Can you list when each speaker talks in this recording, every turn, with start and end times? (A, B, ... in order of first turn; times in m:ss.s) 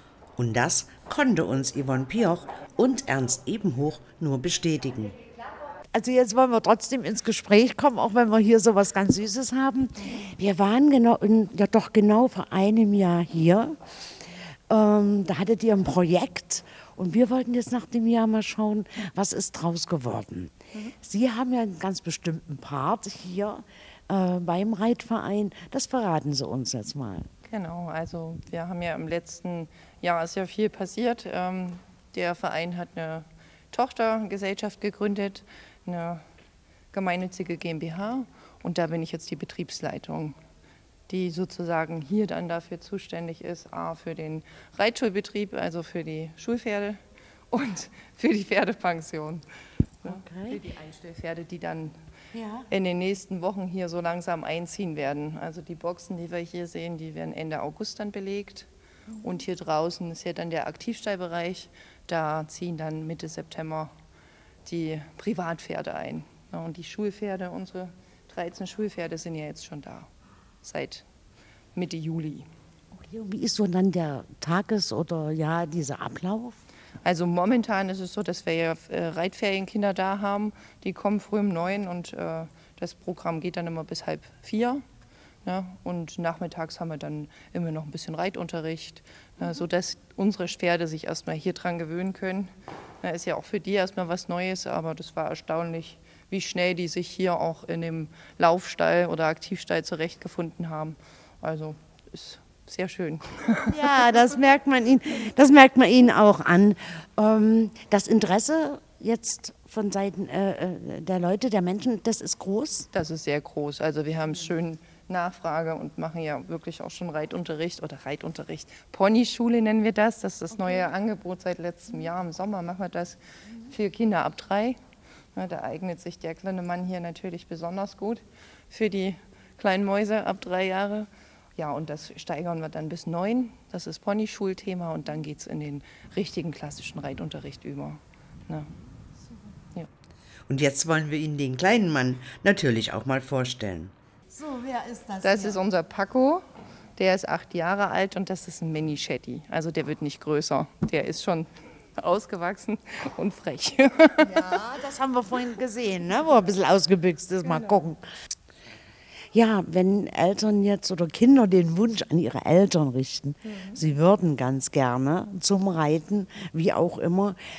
0:00.4-0:05.1 A
0:05.9-0:13.7 B
0:14.7-0:27.3 B
0:27.4-0:36.2 C
0:36.9-0:40.4 C
0:41.1-0:47.0 C
0:47.5-0:49.4 C
0:50.0-0:51.9 C
0:50.0-0:50.6 B
0:52.3-0:52.7 B
0:52.7-0:58.7 C
0:59.2-1:03.9 C
1:04.6-1:10.1 C
1:10.6-1:11.0 C
1:11.7-1:12.5 C
1:12.9-1:16.6 B
1:17.0-1:24.8 C
1:25.4-1:32.5 C
1:33.0-1:43.7 C
1:43.7-1:52.9 B
1:52.9-2:04.8 C
2:05.3-2:18.7 C
2:20.5-2:23.9 A
2:24.3-2:25.6 B
2:25.2-2:26.4 C
2:27.0-2:34.4 C
2:34.2-2:38.0 B
2:37.4-2:37.8 C
2:39.3-2:47.4 B